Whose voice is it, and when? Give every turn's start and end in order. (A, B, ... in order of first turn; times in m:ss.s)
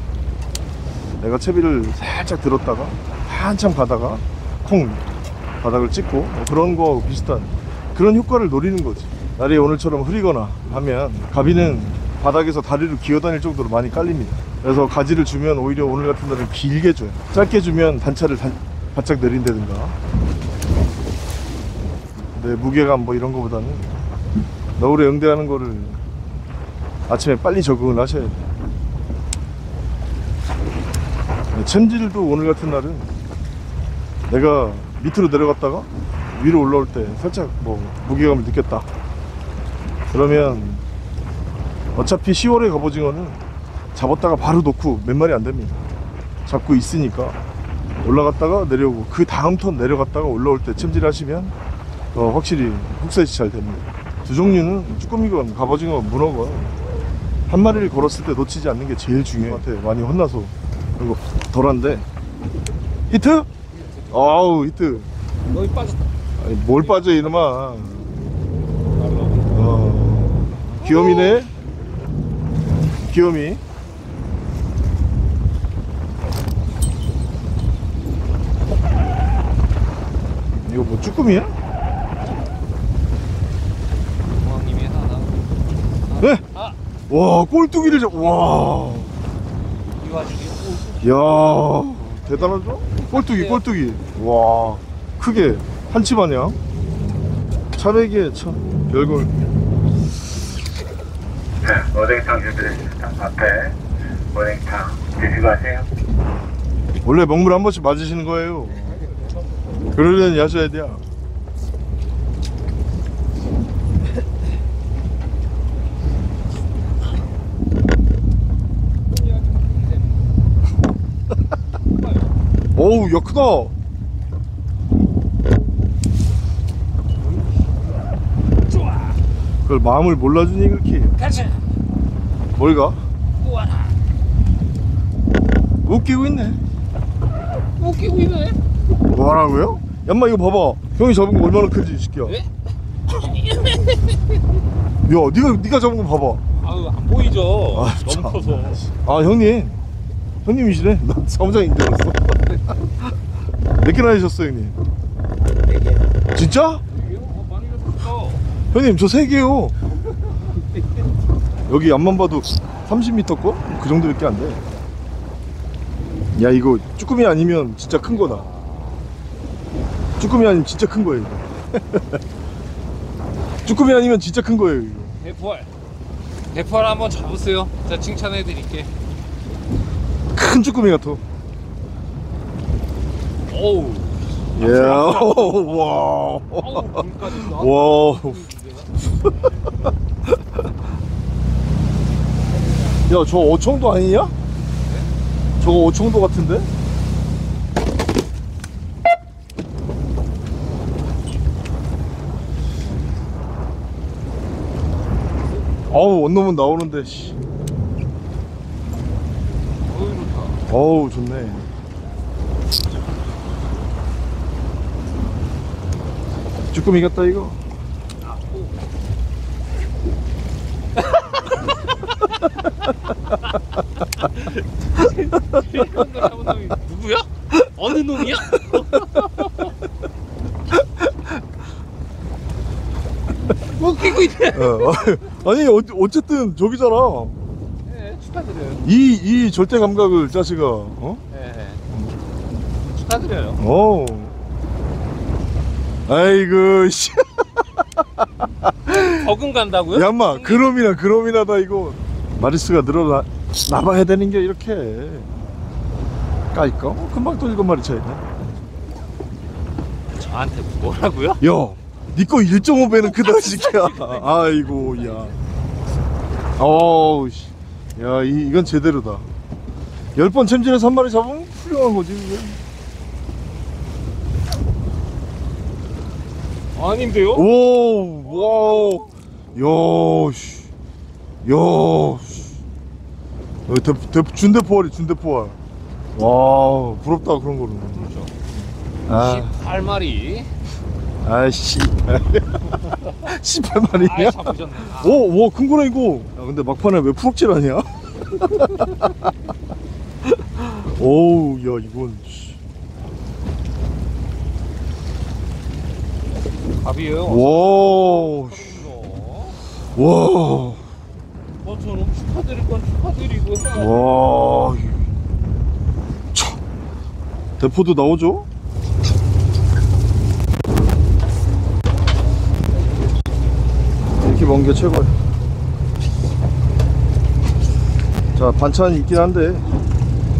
0:01.2-0:05.1 A
0:05.6-0:20.0 A
0:22.2-0:24.0 A
0:24.8-0:26.0 A
0:27.1-0:28.4 A
0:31.5-0:33.1 A
0:34.3-0:38.9 A
0:40.1-0:40.8 A
0:41.9-0:43.4 A
0:43.9-0:45.8 A
0:46.4-0:47.4 A
0:48.0-0:51.5 A
0:52.1-0:56.8 A
0:57.5-1:02.1 A
1:03.1-1:03.5 A
1:03.7-1:04.5 B
1:04.1-1:05.1 A
1:05.5-1:06.0 B
1:06.4-1:08.2 A
1:06.8-1:07.4 B
1:08.9-1:09.9 B
1:09.5-1:11.5 A
1:10.8-1:11.4 B
1:12.9-1:13.6 A
1:20.6-1:21.5 A
1:24.3-1:25.4 B
1:26.0-1:26.8 B
1:27.1-1:29.1 A
1:27.9-1:28.7 B
1:30.0-1:31.0 B
1:31.0-1:36.6 A
1:32.4-1:33.6 B
1:37.7-1:39.3 A
1:41.6-1:43.8 C
1:44.3-1:45.9 C
1:47.0-1:49.0 A
1:49.9-1:51.0 A
1:59.1-2:00.2 B
2:01.9-2:02.3 B
2:02.7-2:03.7 A
2:08.6-2:09.2 B
2:09.6-2:11.2 A
2:11.2-2:11.6 B
2:12.5-2:13.0 A
2:13.4-2:14.0 B
2:15.8-2:16.6 A
2:17.8-2:18.6 B
2:19.0-2:22.4 A
2:23.1-2:24.6 B
2:25.0-2:26.4 A
2:26.5-2:28.8 B
2:27.7-2:29.8 A
2:30.4-2:32.5 A
2:33.8-2:34.8 A
2:36.3-2:36.8 A
2:36.9-2:38.4 B
2:38.7-2:39.8 A
2:41.7-2:44.6 A
2:46.3-2:48.5 A
2:48.1-2:49.0 B
2:50.2-2:52.2 A
2:53.6-2:55.2 A
2:55.2-2:55.7 B
2:56.5-2:58.9 B
3:00.3-3:01.2 A
3:03.5-3:05.7 B
3:04.5-3:08.5 A
3:06.5-3:08.9 B
3:13.0-3:14.3 A
3:15.6-3:16.7 A
3:25.9-3:27.4 A
3:29.8-3:30.6 B
3:30.7-3:31.7 A
3:36.7-3:37.6 A
3:38.2-3:38.7 B
3:44.1-3:49.7 B
3:50.7-3:51.4 A
3:53.7-3:55.3 B
3:54.4-3:57.4 A
3:57.8-3:58.8 B
3:58.8-4:01.2 A
4:01.3-4:01.8 B
4:01.9-4:02.2 A
4:02.9-4:03.6 B
4:03.6-4:04.4 A
4:06.0-4:09.3 A
4:08.9-4:10.8 B
4:09.9-4:15.3 A
4:16.5-4:18.3 A
4:20.2-4:21.4 B
4:21.4-4:25.4 A
4:23.2-4:25.2 B
4:26.6-4:29.3 A
4:30.1-4:32.6 A
4:36.7-4:37.4 B
4:37.3-4:40.7 A
4:38.7-4:39.0 B
4:41.4-4:42.6 A
4:43.7-4:45.6 A
4:46.1-4:49.6 A
4:48.0-4:48.3 B
4:49.2-4:50.5 B
4:51.2-4:59.3 A
4:54.0-4:55.2 B
5:00.2-5:02.6 A
5:06.8-5:09.6 B
5:07.2-5:08.9 A
5:09.9-5:10.8 A
5:11.6-5:14.2 B
5:13.7-5:15.0 A
5:16.3-5:16.6 A
5:17.6-5:18.5 A
5:24.1-5:25.2 A
5:28.4-5:29.7 A